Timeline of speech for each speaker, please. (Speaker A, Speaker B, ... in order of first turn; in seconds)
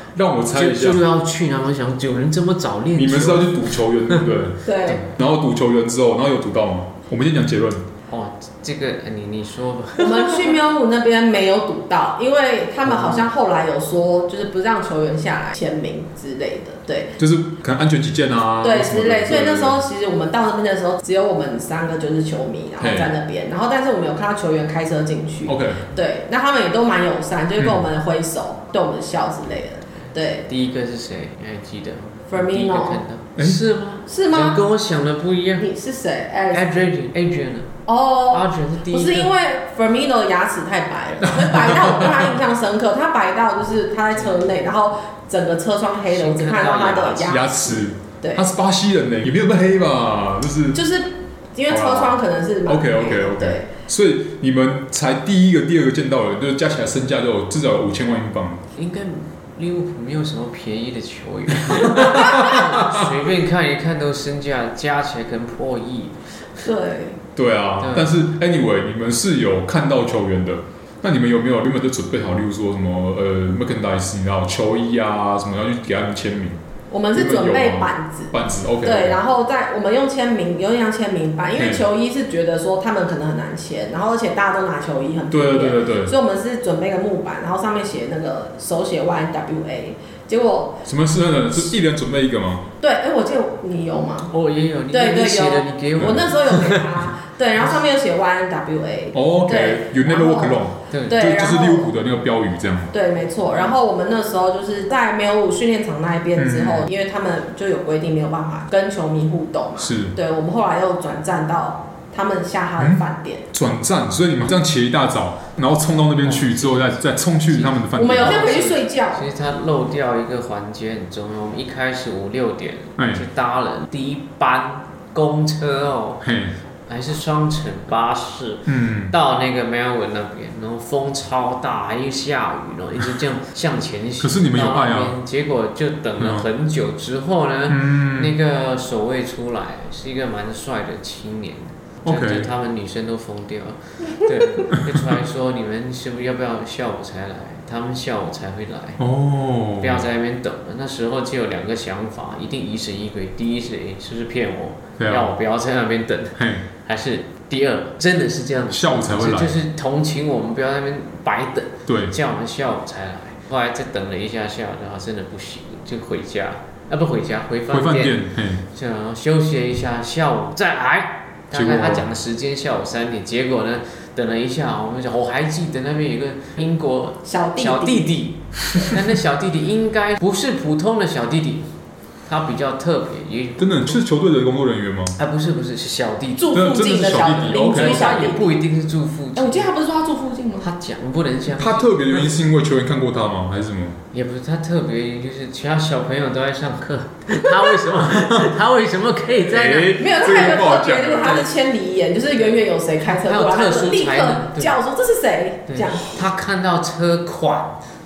Speaker A: 0.1-1.0, 2.9-7.9, 12.9-13.2, 17.2-19.8, 22.8-23.1, 25.4-25.9, 27.6-27.9, 41.2-42.3, 47.2-50.8, 51.7-58.6, 61.6-63.1, 67.3-76.6, 77.1-79.2, 81.5-81.8, 85.3-86.1, 90.8-92.7, 96.0-96.3, 99.1-102.9, 106.4-106.9, 109.8-110.1, 112.8-118.7, 123.0-123.2, 126.2-126.5, 128.7-129.1, 134.2-135.1, 136.2-136.5, 137.7-138.4, 142.0-142.5, 149.0-150.1, 155.0-155.3, 156.4-156.7, 158.7-159.6, 161.9-162.2, 167.7-168.6, 171.5-172.1, 183.6-185.2, 186.5-188.3, 191.5-194.0, 199.3-201.4
Speaker B: 0.5-4.2, 8.1-10.6, 30.4-35.7, 36.5-37.7, 38.3-39.3, 44.1-44.6, 46.1-47.4, 58.7-66.6, 67.8-68.1, 94.3-97.0, 100.9-101.2, 116.2-126.2, 126.9-149.0, 149.8-181.7, 182.3-183.9, 185.2-186.7, 187.7-189.7, 190.6-192.3, 194.1-200.2, 202.3-204.8, 205.7-207.8
Speaker C: 4.6-5.1, 10.0-17.2, 18.6-30.5, 32.3-33.0, 34.1-34.6, 35.6-36.7, 37.9-48.4, 50.7-53.7, 66.6-67.2, 76.9-90.8, 92.8-94.3, 94.9-101.9, 102.9-113.4, 117.9-119.2, 177.2-178.2, 186.4-188.6, 189.3-190.7, 199.9-206.2